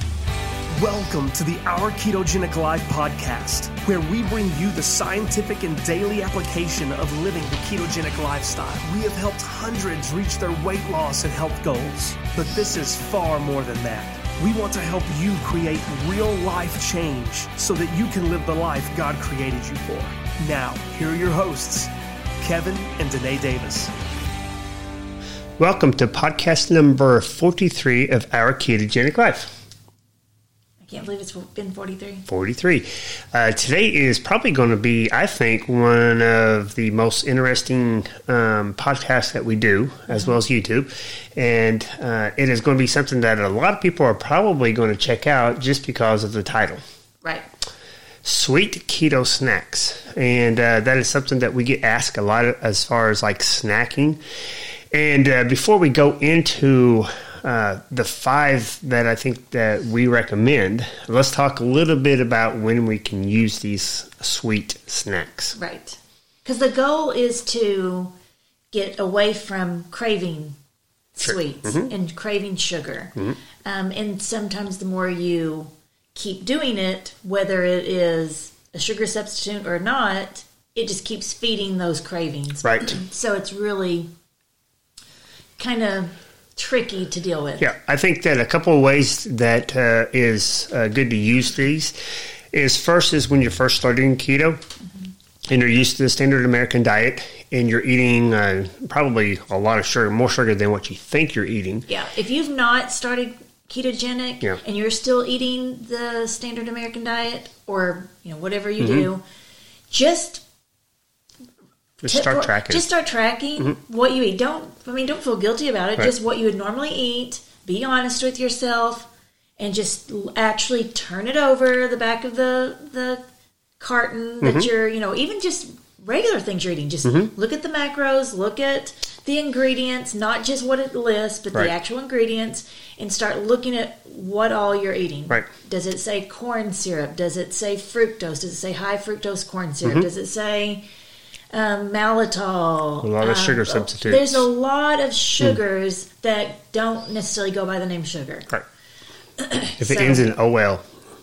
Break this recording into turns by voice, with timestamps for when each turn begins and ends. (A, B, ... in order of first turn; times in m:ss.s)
0:00.8-0:23.9 A
0:25.6-0:29.5 B
0:30.8-0:32.3 C
0:32.3-0:46.8 B
0:48.2-0:54.2 B
0:54.9-1:05.6 B
1:05.6-1:08.1 C
1:08.7-1:10.6 C
1:11.2-1:24.1 C
1:11.2-1:11.9 B
1:22.6-1:23.0 B
1:25.6-1:27.7 C
1:27.6-1:32.0 B
1:32.5-1:34.6 B
1:35.5-1:41.9 B
1:41.9-1:49.2 C
1:48.8-1:49.0 B
1:49.9-1:50.4 C
1:52.0-1:52.9 B
1:52.0-1:59.1 C
1:59.6-2:03.2 C
2:03.8-2:20.8 C
2:04.4-2:04.7 B
2:21.5-2:28.5 C
2:23.0-2:24.5 B
2:29.4-2:30.3 C
2:29.8-2:30.8 B